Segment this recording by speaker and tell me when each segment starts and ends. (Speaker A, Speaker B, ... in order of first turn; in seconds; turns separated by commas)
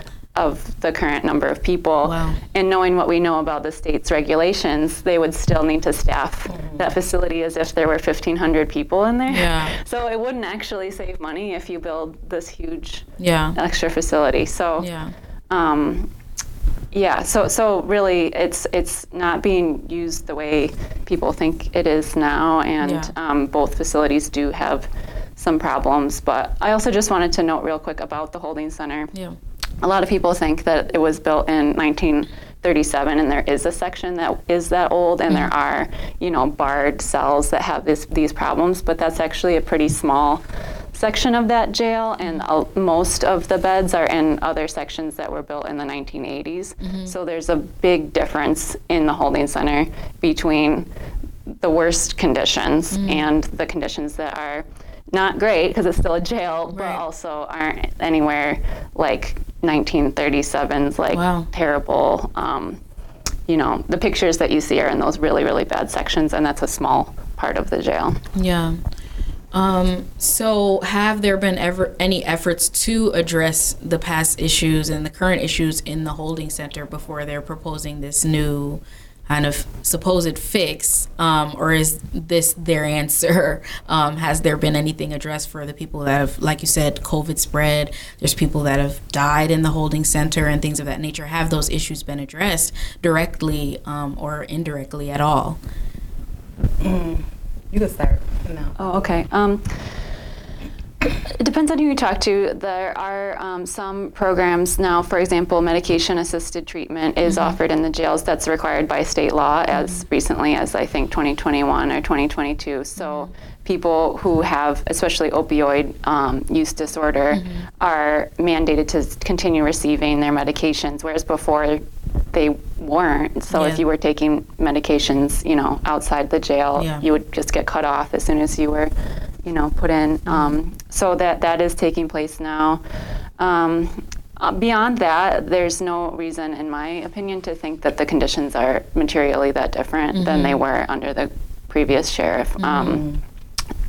Speaker A: 0.3-14.9, Speaker B: 2.0-2.4, Speaker C: 6.5-6.8, Speaker B: 9.3-9.7, Speaker B: 13.2-13.6, Speaker B: 14.8-15.1, Speaker A: 15.5-16.1, Speaker A: 16.9-29.1, Speaker B: 22.8-23.1, Speaker A: 29.8-50.9, Speaker B: 46.8-47.1, Speaker A: 51.5-62.8, Speaker B: 52.9-53.2, Speaker B: 56.7-57.0, Speaker B: 61.1-61.5, Speaker A: 63.5-68.2, Speaker B: 68.3-68.8, Speaker B: 69.5-95.6, Speaker C: 96.8-98.9, Speaker A: 98.8-99.8, Speaker A: 101.2-128.9, Speaker B: 107.2-107.6, Speaker B: 109.7-110.0, Speaker B: 113.0-113.3, Speaker B: 117.3-117.7, Speaker B: 123.5-123.8, Speaker B: 126.8-127.0, Speaker A: 129.4-132.8, Speaker B: 130.3-130.6, Speaker A: 133.4-143.0, Speaker B: 140.1-140.6, Speaker B: 142.6-143.0, Speaker C: 142.8-143.2